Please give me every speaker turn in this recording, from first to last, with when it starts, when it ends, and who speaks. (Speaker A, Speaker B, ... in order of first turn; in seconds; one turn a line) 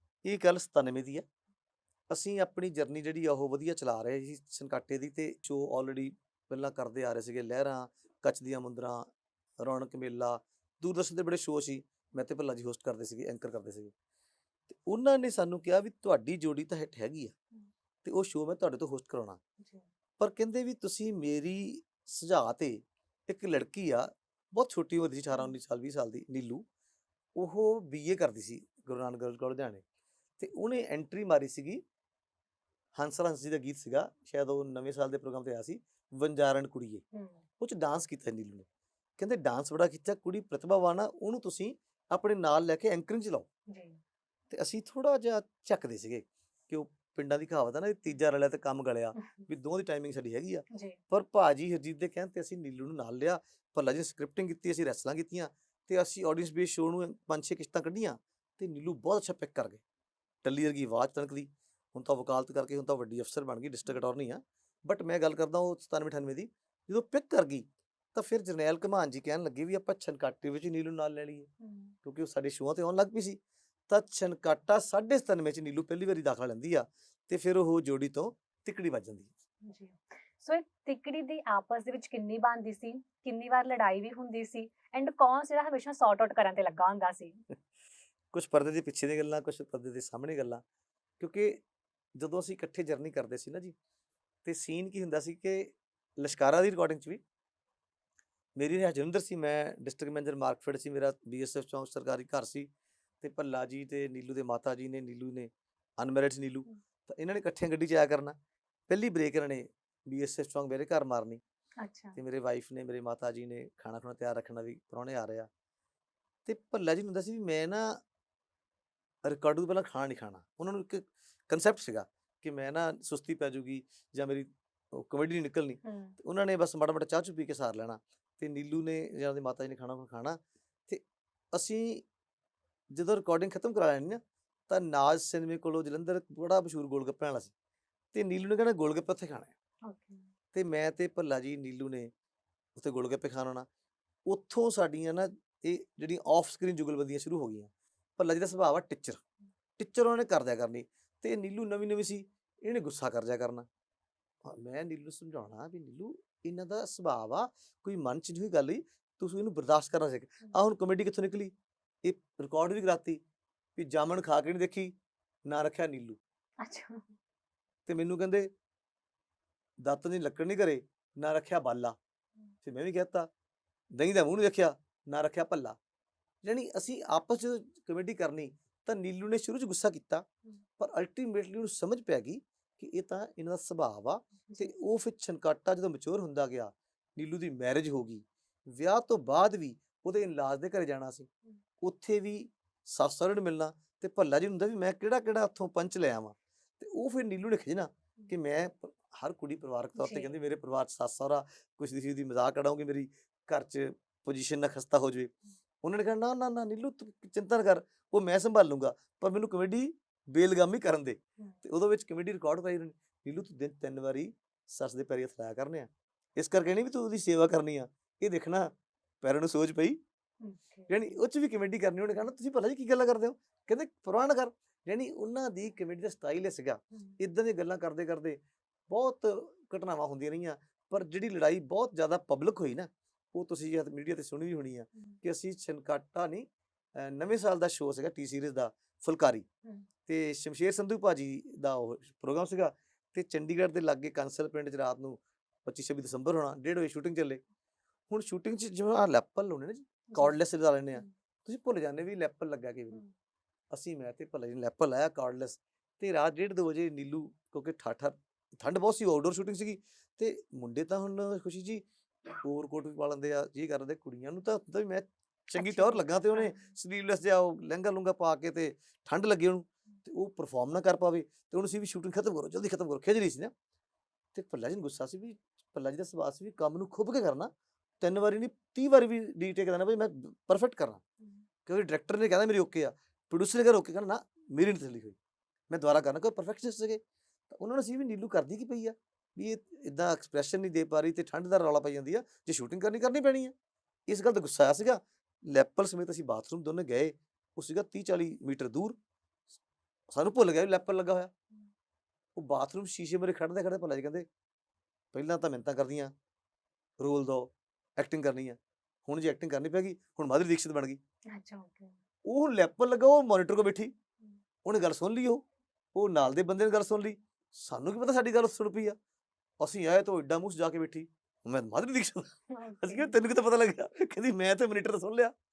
Speaker A: 0.2-1.2
Speaker A: 2.1-9.1
Speaker A: 9.6-13.9
Speaker A: 14.7-17.3
Speaker A: 18.0-19.4
Speaker B: 19.6-19.9
Speaker A: 20.2-26.6
Speaker A: 27.4-29.8
Speaker A: 30.4-31.8
Speaker A: 33.0-37.0
Speaker B: 37.1-37.4
Speaker A: 37.6-38.7
Speaker A: 39.2-43.5
Speaker B: 43.7-44.0
Speaker A: 44.5-59.8
Speaker B: 49.2-49.4
Speaker B: 50.7-51.0
Speaker A: 60.4-71.5
Speaker B: 71.6-72.0
Speaker A: 72.0-79.3
Speaker B: 79.6-87.4
Speaker A: 88.3-90.6
Speaker A: 91.2-91.6
Speaker A: 92.2-93.8
Speaker A: 94.4-97.2
Speaker A: 98.5-102.7
Speaker A: 103.2-108.3
Speaker A: 108.9-111.4
Speaker B: 111.8-112.2
Speaker A: 112.2-115.5
Speaker A: 116.5-118.0
Speaker A: 119.2-132.0
Speaker B: 125.8-126.1
Speaker A: 132.9-137.5
Speaker A: 138.1-139.5
Speaker B: 139.8-140.2
Speaker A: 140.5-142.1
Speaker A: 142.8-143.7
Speaker A: 144.3-149.2
Speaker A: 149.8-153.7
Speaker A: 154.4-161.5
Speaker A: 162.0-163.2
Speaker A: 163.8-164.9
Speaker A: 165.4-166.2
Speaker B: 166.6-167.1
Speaker A: 167.8-168.5
Speaker A: 169.8-171.9
Speaker A: 172.6-173.3
Speaker A: 173.9-175.8
Speaker A: 176.4-180.2
Speaker A: 180.8-191.3
Speaker B: 184.5-184.7
Speaker A: 191.8-205.3
Speaker B: 199.9-200.3
Speaker A: 205.8-218.7
Speaker A: 219.2-220.0
Speaker B: 220.4-221.1
Speaker A: 220.9-236.4
Speaker A: 237.0-239.4
Speaker A: 240.1-247.4
Speaker A: 248.1-253.0
Speaker A: 253.7-273.5
Speaker B: 265.6-266.7
Speaker A: 274.3-277.5
Speaker A: 278.0-281.0
Speaker A: 281.6-285.2
Speaker A: 285.7-293.5
Speaker A: 294.1-298.9
Speaker A: 300.1-301.3
Speaker A: 302.4-304.2
Speaker A: 305.1-306.1
Speaker A: 307.0-311.0
Speaker B: 311.3-312.0
Speaker A: 312.2-313.9
Speaker A: 314.6-315.4
Speaker A: 315.9-318.9
Speaker A: 319.6-325.3
Speaker B: 322.5-323.2